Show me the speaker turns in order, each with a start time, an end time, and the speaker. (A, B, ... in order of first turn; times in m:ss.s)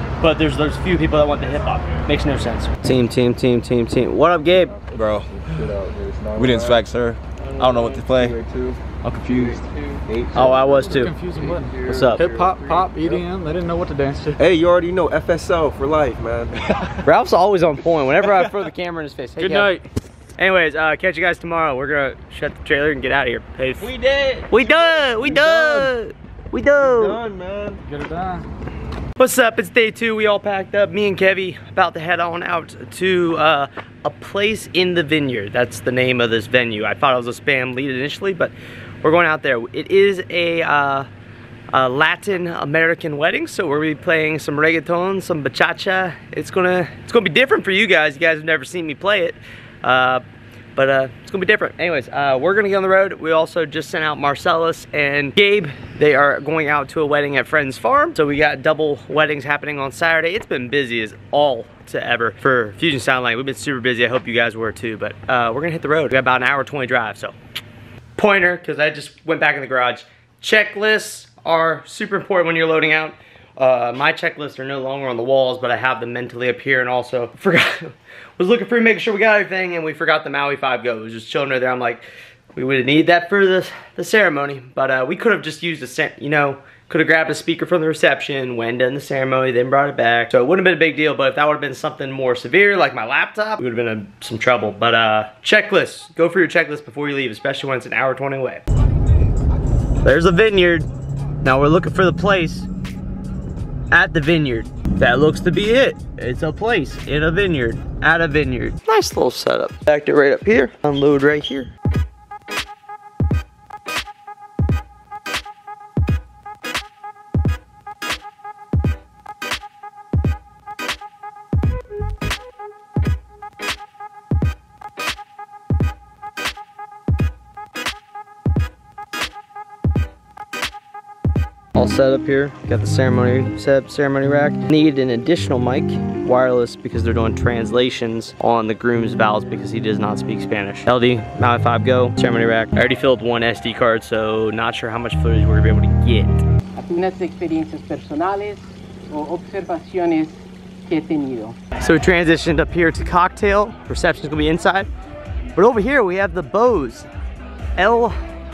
0:00.2-0:05.2 A
0:04.7-0:06.8 B
0:06.4-0:06.8 A
0:06.4-0:08.4 C
0:07.6-0:10.5 B
0:07.6-0:08.4 A
0:10.4-0:11.1 A
0:10.4-0:14.4 D
0:11.4-0:13.2 B
0:11.8-0:12.3 A
0:14.4-0:16.5 B
0:16.8-0:19.8 A
0:19.4-0:19.8 D
0:20.4-0:27.2 A
0:24.8-0:25.8 B
0:26.8-0:27.8 B
0:27.9-0:28.4 D
0:29.2-0:41.1 A
0:41.7-0:50.2 A
0:50.8-1:07.3 A
1:08.2-1:38.6 A
1:40.0-1:40.9 A
1:41.4-1:42.7 A
1:43.9-1:51.7 A
2:11.8-2:26.4 A
2:26.8-2:31.6 E
2:31.8-2:34.9 A
2:35.6-2:37.1 A
2:37.8-2:38.2 A